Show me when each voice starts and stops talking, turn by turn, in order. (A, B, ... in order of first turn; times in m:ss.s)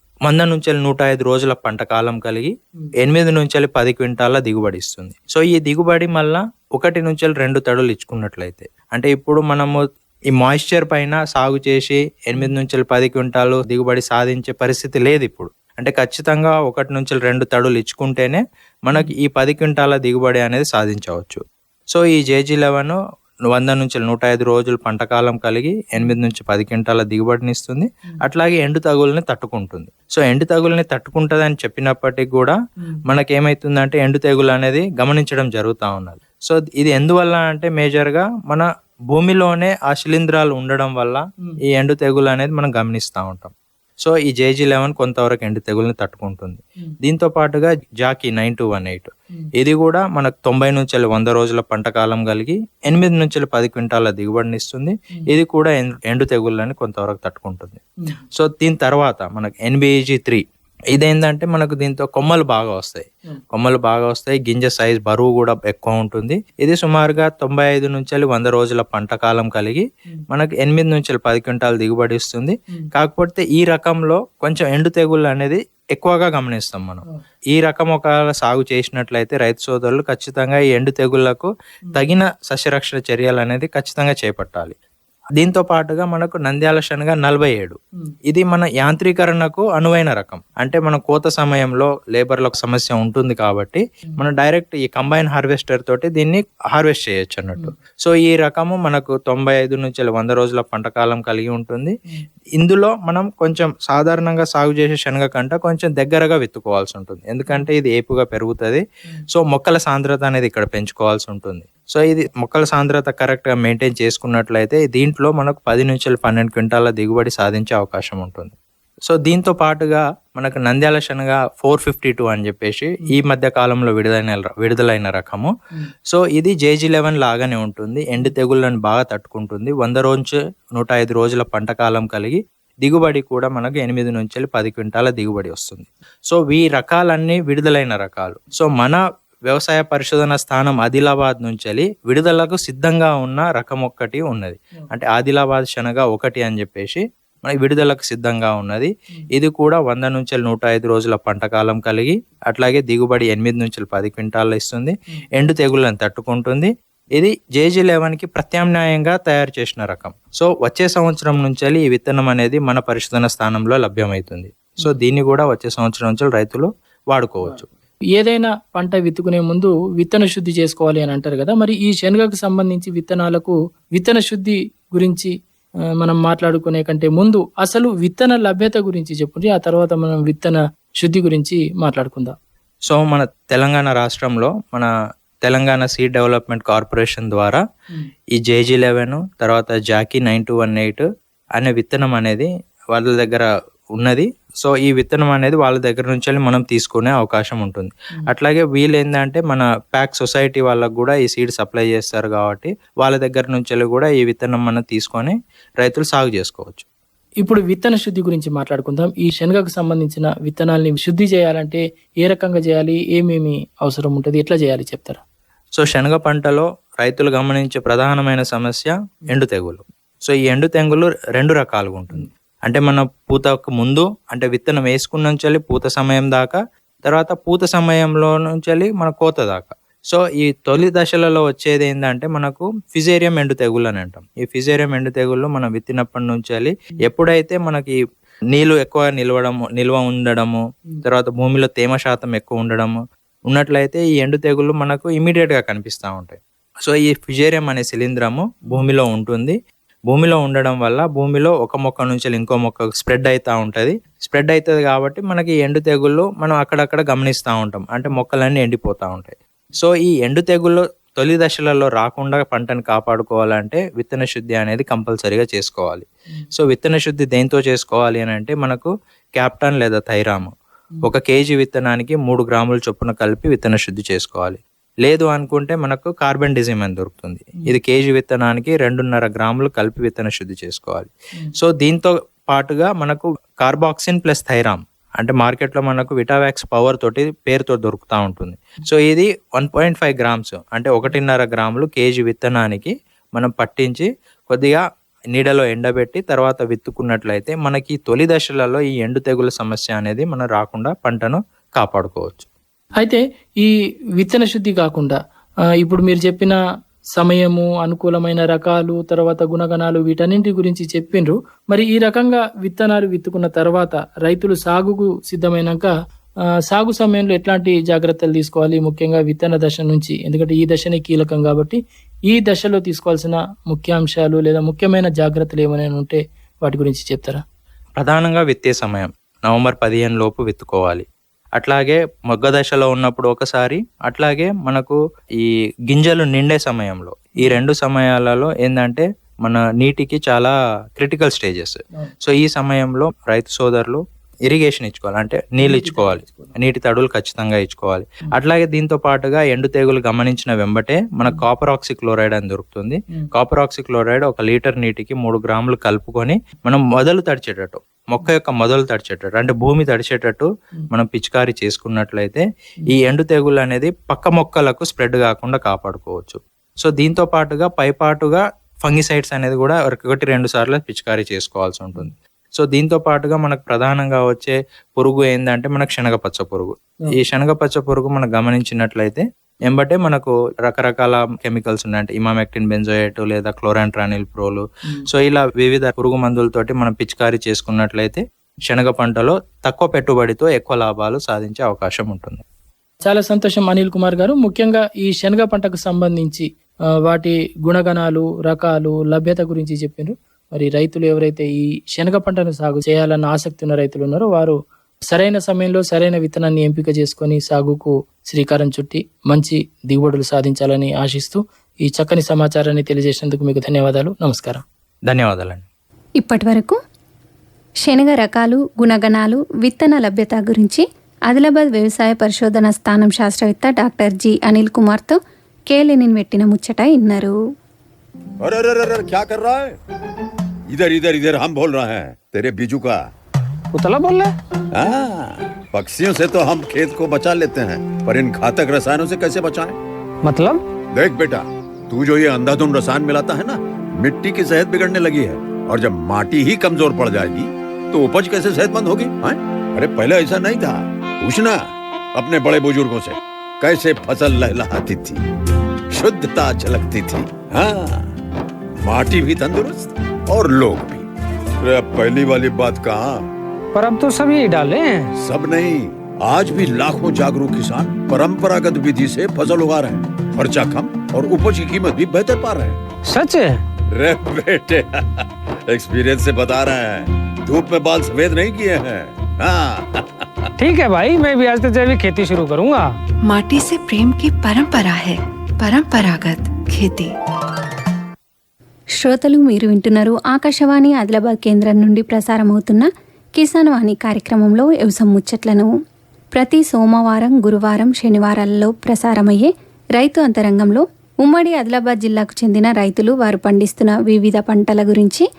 0:00.2-0:09.8 A
0:10.4-0:23.0 A
0:23.5-0:32.6 A
0:33.1-0:43.5 A
0:44.0-0:57.8 A
0:58.3-1:00.4 A
1:00.9-1:24.8 A
1:25.4-1:41.9 A
1:42.6-1:58.6 A
1:59.1-2:05.5 A
2:06.1-2:47.7 A
2:48.2-2:55.3 B
2:56.0-3:02.4 B
3:02.9-3:04.9 A
3:05.4-3:07.6 A
3:08.3-3:26.8 A
3:27.4-3:35.2 B
3:35.8-3:57.9 A
3:58.5-4:03.0 A
4:03.5-4:09.6 A
4:10.1-4:54.8 A
4:55.3-5:02.5 A
5:03.0-5:05.2 B
5:05.8-5:06.6 B
5:07.2-5:15.9 B
5:16.7-5:21.8 B
5:22.3-5:27.4 B
5:28.0-5:31.0 A
5:31.6-6:32.4 A
5:45.6-5:46.6 B
6:33.0-6:36.4 B
6:37.1-6:44.6 B
6:45.1-6:54.6 B
6:55.1-6:55.7 A
6:56.2-6:56.8 C
6:57.8-7:05.2 C
7:05.7-7:07.3 C
7:08.4-7:09.8 D
7:10.7-7:13.0 D
7:13.7-7:14.3 E
7:14.7-7:19.8 D
7:20.2-7:20.6 E
7:20.9-7:31.6 D
7:32.2-7:35.2 D
7:35.9-7:38.0 D
7:38.8-7:41.1 D
7:41.6-7:43.2 D
7:43.8-7:45.1 E
7:45.2-7:52.8 D
7:53.1-7:53.6 E
7:53.9-8:00.5 D
8:00.6-8:02.9 E
8:03.2-8:07.1 F
8:09.0-8:15.7 C
8:16.3-8:25.2 C